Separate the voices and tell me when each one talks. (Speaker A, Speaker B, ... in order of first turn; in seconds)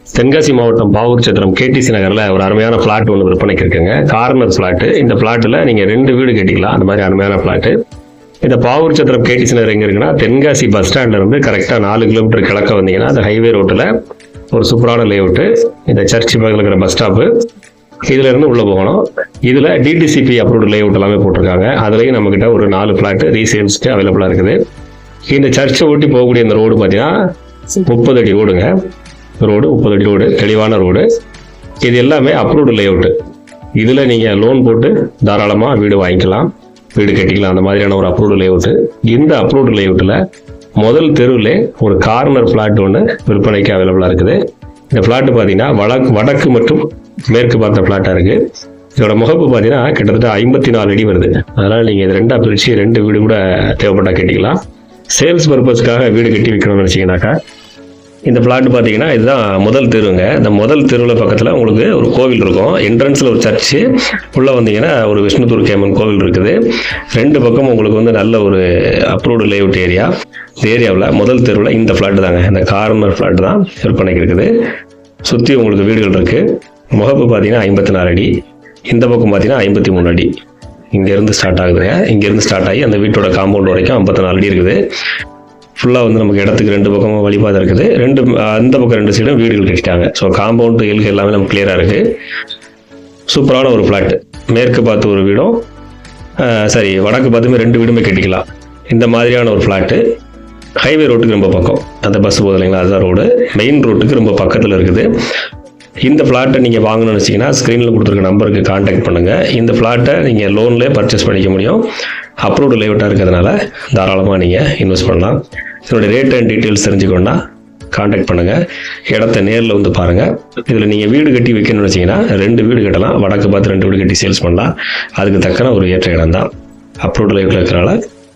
Speaker A: 0.1-7.7, 8.4-13.9, 14.5-17.3, 18.1-24.6, 25.3-27.1, 27.8-28.7, 29.4-31.0, 31.8-33.1, 33.8-40.2, 40.8-44.4, 44.9-48.4, 49.0-54.6, 55.1-57.4, 58.3-63.8, 64.3-66.6, 67.1-70.1, 70.6-74.5, 75.2-78.3, 78.9-80.3, 80.9-84.8, 85.8-92.0, 93.3-95.6, 96.4-100.0, 100.8-105.1, 106.0-111.8, 112.4-117.4, 117.9-126.5, 127.0-128.0